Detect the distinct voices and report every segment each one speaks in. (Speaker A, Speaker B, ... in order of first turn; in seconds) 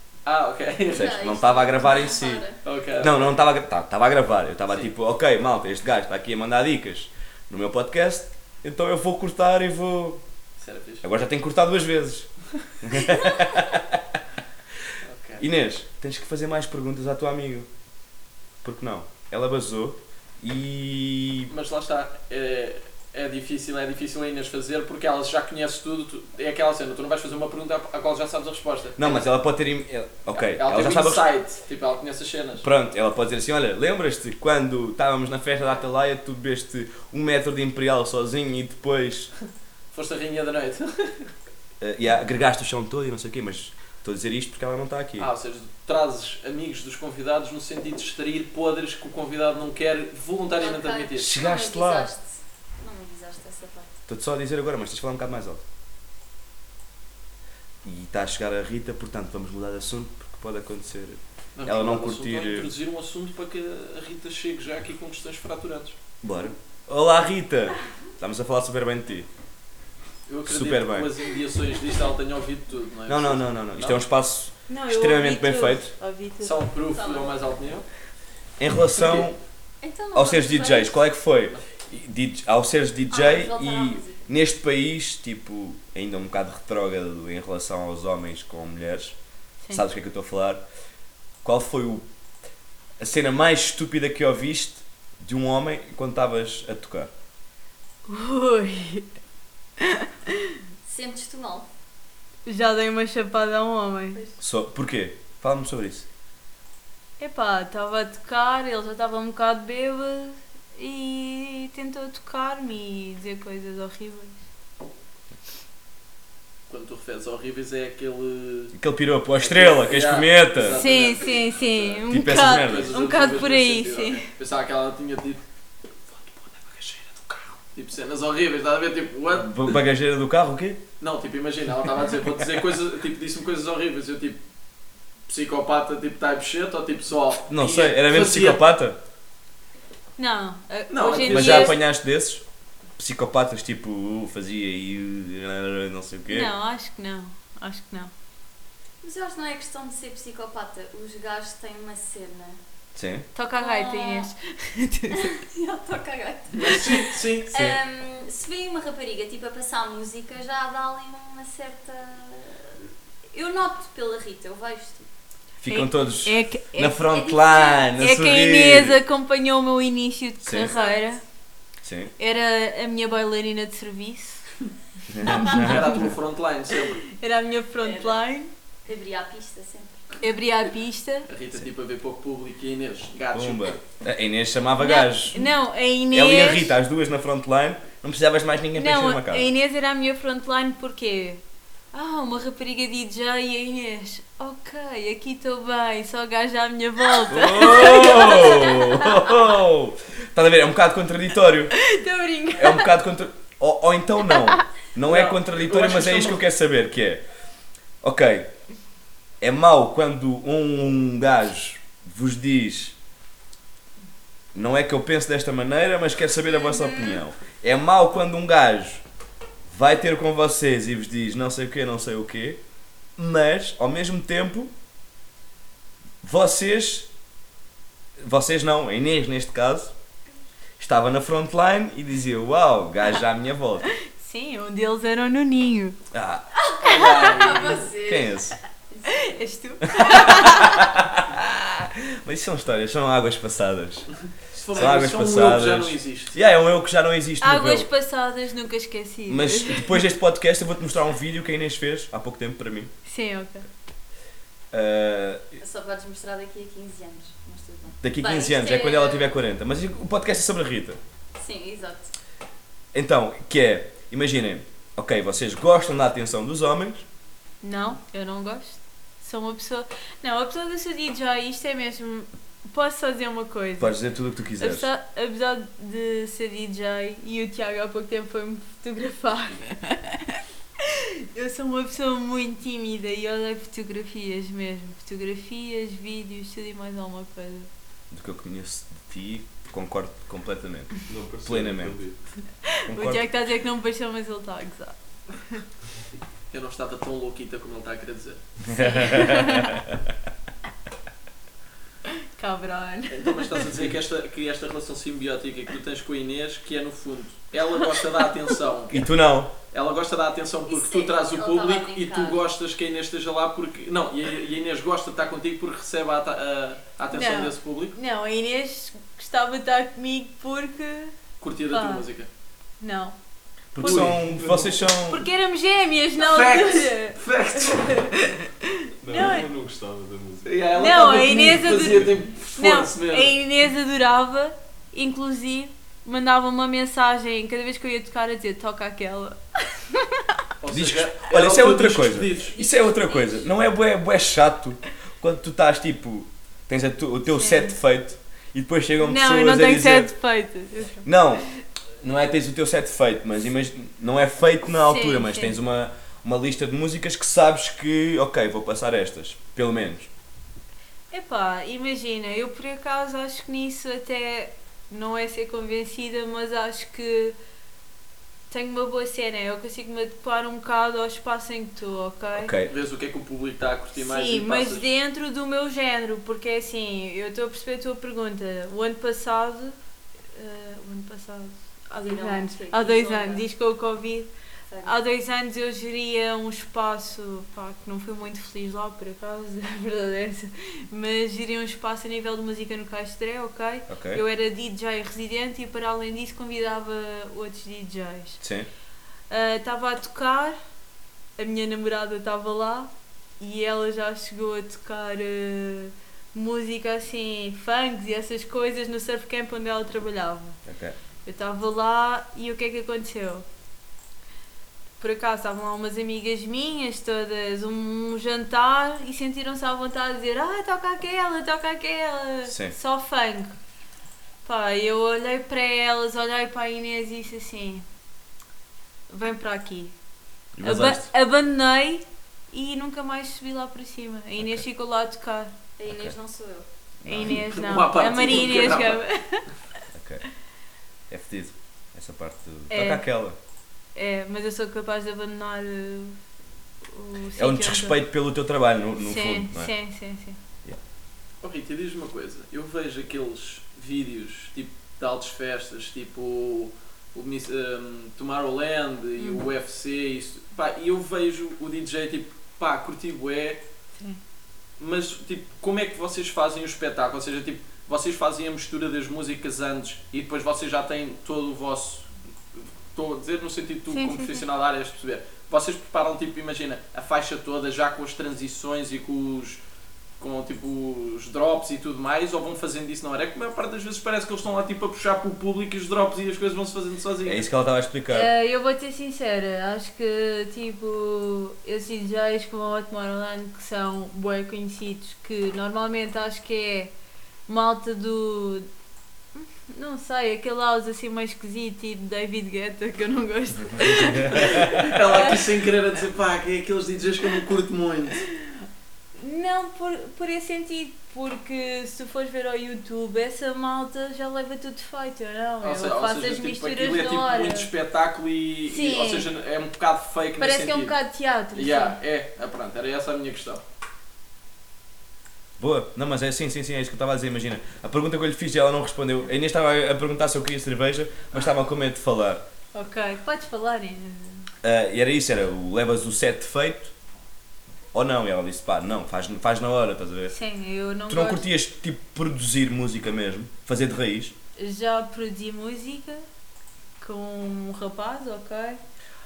Speaker A: 0.2-1.2, 2.6-3.4, 10.6-11.1, 15.0-15.5, 21.5-29.1, 30.4-32.7, 39.9-41.3, 45.2-51.3, 61.5-66.0, 70.3-74.0, 76.4-77.8, 79.0-79.3, 116.7-118.7, 119.4-125.4, 127.2-129.7, 131.0-134.4, 135.3-138.6, 140.9-141.8, 156.5-157.6, 175.2-177.0, 181.3-183.8, 205.1-206.4, 236.8-237.9, 244.5-246.3, 296.5-298.4, 303.1-309.0, 309.7-317.9, 321.4-322.3, 323.8-324.2, 326.2-328.0, 330.4-333.3, 340.6-342.5, 372.7-374.8, 437.2-439.0, 451.4-463.6, 464.8-472.1, 472.9-479.6, 480.2-487.5, 504.3-508.2, 515.6-520.9, 521.5-523.6
Speaker B: 0.9-2.4, 3.0-10.2, 11.0-12.3, 12.8-14.1, 15.4-17.7, 18.6-21.5, 29.0-31.3, 32.6-39.3, 41.8-45.3, 51.2-52.1, 54.1-55.6, 57.8-62.7, 66.2-69.3, 70.5-71.2, 73.1-75.9, 78.6-79.4, 80.1-89.2, 89.7-90.6, 91.4-92.0, 93.0-97.1, 104.4-106.1, 118.7-120.8, 122.1-122.9, 129.3-130.8, 137.5-139.0, 141.2-142.4, 143.0-146.5, 152.9-153.3, 157.5-157.8, 165.6-169.0, 170.4-170.7, 171.8-172.1, 175.1-175.9, 183.3-185.5, 186.1-189.5, 197.3-201.7, 202.6-207.2, 208.0-208.5, 209.4-212.9, 214.5-219.0, 219.7-222.6, 223.2-224.7, 226.2-227.1, 228.2-229.9, 230.8-233.9, 236.1-236.4, 238.0-238.6, 240.0-244.1, 244.7-247.9, 249.3-252.9, 254.7-255.6, 258.0-261.0, 262.9-267.1, 273.8-274.9, 288.1-290.9, 291.4-292.0, 292.9-293.3, 298.7-299.9, 308.9-309.5, 323.7-325.2, 340.7-350.1, 351.0-351.4, 352.0-360.1, 372.4-372.7, 393.9-394.2, 398.4-398.7, 410.6-410.9, 422.5-422.8, 430.6-431.1, 435.9-436.1, 437.0-437.4, 439.9-440.2, 441.1-443.4, 447.4-449.7, 487.2-488.3, 525.6-532.4, 534.6-536.9, 537.9-540.3, 541.1-544.3
Speaker C: 0.9-2.6, 50.6-53.9, 76.9-77.3, 79.8-81.0, 83.1-84.2, 100.8-101.7, 149.0-152.6, 153.6-154.3, 155.2-165.1, 167.1-167.9, 170.7-171.0, 177.8-178.2, 178.8-180.2, 236.7-238.4, 238.9-239.2, 255.6-259.4, 261.4-262.1, 310.7-312.4, 342.5-343.4, 382.0-383.4, 435.8-436.7
Speaker D: 74.7-76.7, 98.1-99.1, 99.8-100.5, 102.5-104.2, 107.2-114.4, 120.7-124.3, 140.2-141.8, 146.3-148.1, 153.3-155.3, 165.7-167.1, 168.0-171.2, 172.2-174.4, 175.2-175.7, 177.1-178.5, 180.2-181.3, 184.8-186.8, 188.8-191.4, 191.9-199.3, 201.7-202.9, 234.0-236.0, 236.8-237.4, 239.1-240.8, 247.4-250.0, 253.1-253.7, 267.6-274.0, 274.6-287.7, 292.7-295.6, 298.7-299.8, 302.1-303.7, 317.1-321.1, 321.7-322.1, 322.8-323.1, 323.8-324.1, 325.1-329.5, 330.8-340.3, 347.3-347.7, 349.0-351.1, 354.8-355.6, 361.1-367.4, 368.5-372.5, 373.9-379.8, 380.3-384.3, 384.8-398.4, 399.3-400.6, 401.4-410.6, 411.2-413.4, 415.0-423.5, 424.4-427.8, 429.1-429.9, 430.6-435.5, 437.0-439.4, 442.7-443.0, 443.9-446.2, 446.8-448.0, 449.0-450.4, 459.2-459.4, 473.9-474.5, 488.1-496.9, 497.5-498.7, 499.3-505.4, 508.2-508.6, 509.2-517.7, 518.7-519.3, 520.4-522.0, 532.7-534.5, 540.3-541.5, 544.6-546.2, 547.0-548.8
Speaker E: 291.1-292.2, 323.9-324.8, 329.0-330.5, 331.9-332.1